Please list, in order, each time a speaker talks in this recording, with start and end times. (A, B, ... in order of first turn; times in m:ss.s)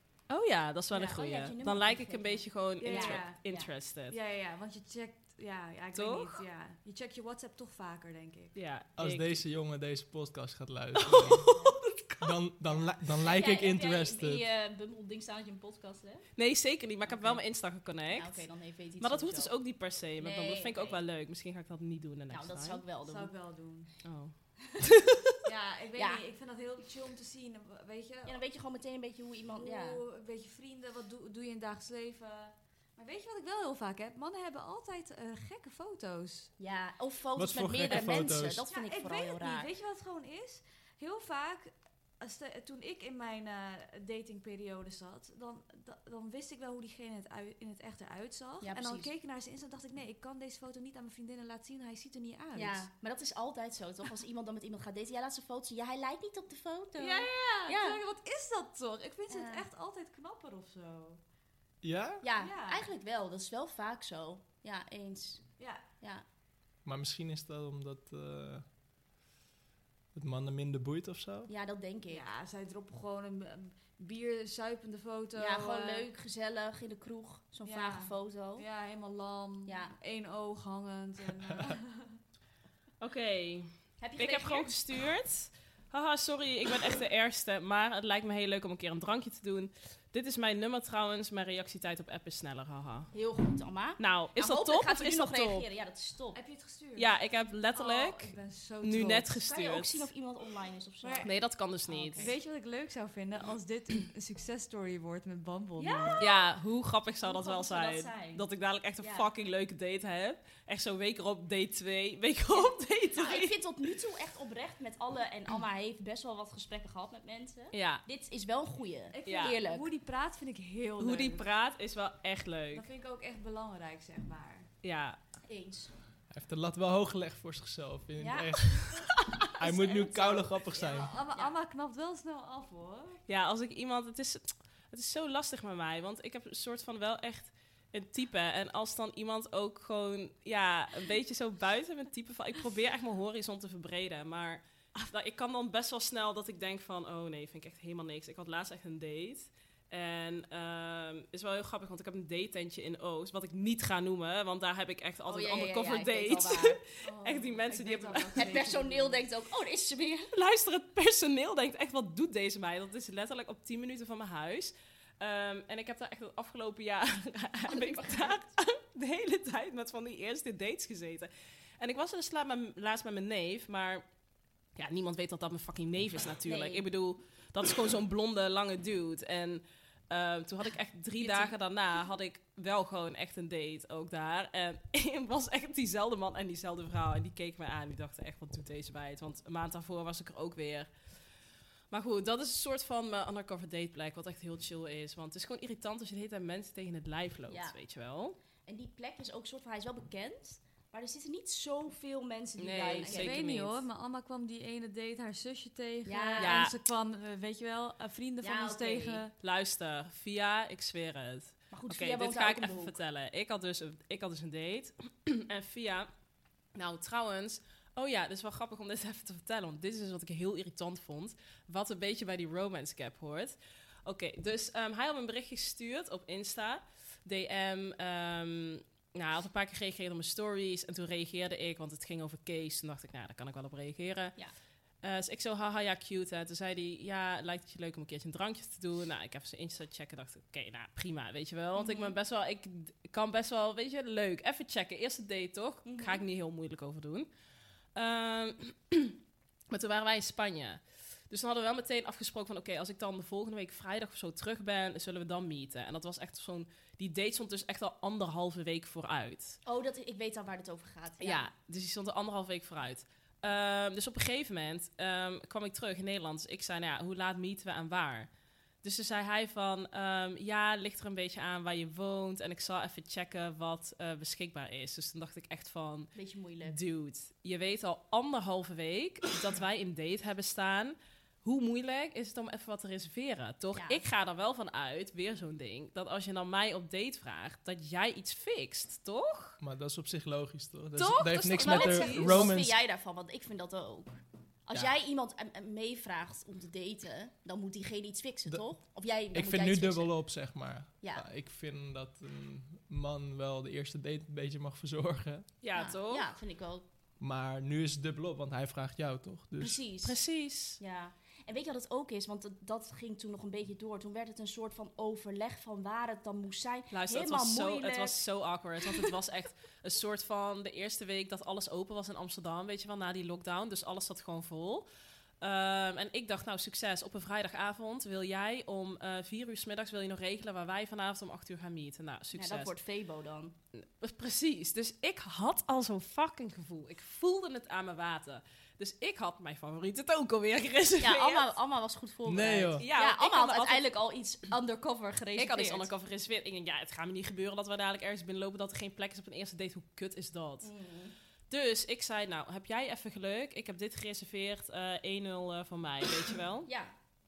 0:00.3-0:04.2 A
0:00.9-0:03.7 B
0:02.8-0:03.4 C
0:04.1-0:08.5 C
0:05.9-0:06.4 A
0:08.5-0:09.4 A
0:09.0-0:11.5 D
0:10.9-0:12.3 A
0:11.5-0:11.8 B
0:12.2-0:14.4 D
0:13.2-0:16.3 B
0:16.4-0:18.5 A
0:17.0-0:17.4 B
0:18.1-0:19.5 B
0:19.0-0:22.8 A
0:20.2-0:21.0 B
0:22.3-0:23.3 B
0:23.0-0:23.9 C
0:24.0-0:25.2 A
0:25.4-0:28.4 C
0:26.0-0:26.2 B
0:28.2-0:30.0 B
0:29.6-0:36.5 C
0:36.6-0:39.7 B
0:37.4-0:38.6 D
0:38.7-0:52.9 C
0:48.6-0:49.1 B
0:52.5-0:58.0 B
0:57.0-1:01.2 C
0:59.3-0:59.7 B
1:01.8-1:02.2 D
1:02.2-1:05.5 B
1:02.4-1:02.9 C
1:05.6-1:05.8 C
1:06.8-1:08.6 D
1:10.1-1:11.5 D
1:11.5-1:12.2 B
1:12.1-1:16.1 C
1:15.4-1:18.6 B
1:17.6-1:22.2 C
1:19.7-1:19.9 B
1:23.0-1:33.1 A
1:24.0-1:24.7 B
1:33.1-1:36.4 B
1:34.0-1:35.7 A
1:36.3-1:37.1 C
1:37.0-1:40.1 A
1:37.7-1:39.3 C
1:39.4-1:41.3 B
1:41.0-1:41.3 C
1:41.2-1:42.3 A
1:41.9-1:42.4 B
1:42.1-1:46.2 C
1:45.8-1:46.5 B
1:46.2-1:53.6 A
1:47.2-1:48.4 B
1:52.5-1:59.9 B
1:57.7-1:58.0 A
1:59.1-2:01.4 C
1:59.2-1:59.6 A
2:01.0-2:02.9 A
2:02.7-2:04.7 C
2:04.8-2:05.2 A
2:05.5-2:05.9 B
2:06.3-2:11.1 D
2:08.2-2:08.5 B
2:09.6-2:13.2 C
2:10.8-2:11.5 B
2:13.3-2:38.7 A
2:35.3-2:36.8 B
2:37.0-2:39.2 C
2:38.0-2:40.3 B
2:40.3-2:54.0 A
2:47.7-2:48.4 B
2:54.8-3:10.9 A
2:56.4-2:56.8 B
3:01.2-3:01.5 B
3:11.9-3:18.4 A
3:17.5-3:17.8 B
3:18.6-3:23.4 B
3:22.6-3:23.8 A
3:23.0-3:29.3 C
3:26.0-3:26.7 B
3:26.4-3:26.7 A
3:28.4-3:29.2 B
3:29.4-3:36.1 A
3:31.7-3:33.0 B
3:36.7-3:54.4 A
3:55.0-4:07.3 A
4:01.7-4:02.2 B
4:05.8-4:06.2 B
4:07.9-4:09.2 A
4:09.7-4:19.6 A
4:19.6-4:21.5 B
4:21.2-4:28.3 A
4:28.8-4:49.6 A
4:36.1-4:36.8 B
4:43.7-4:44.0 B
4:49.6-4:52.8 D
4:51.0-4:52.5 A
4:51.6-5:00.1 B
4:58.4-5:05.5 D
5:01.0-5:01.2 B
5:05.6-5:06.3 A
5:05.7-5:06.8 B
5:07.2-5:09.8 D
5:09.6-5:10.2 B
5:10.0-5:10.8 A
5:10.8-5:18.2 B
5:16.9-5:24.8 A
5:25.4-5:32.7 A
5:32.3-5:33.5 B
5:33.7-5:41.5 A
5:41.0-5:45.9 B
5:42.2-5:42.8 D
5:42.8-5:43.9 A
5:45.4-5:50.7 A
5:50.6-5:51.1 B
5:51.5-5:56.7 A
5:56.6-5:56.9 B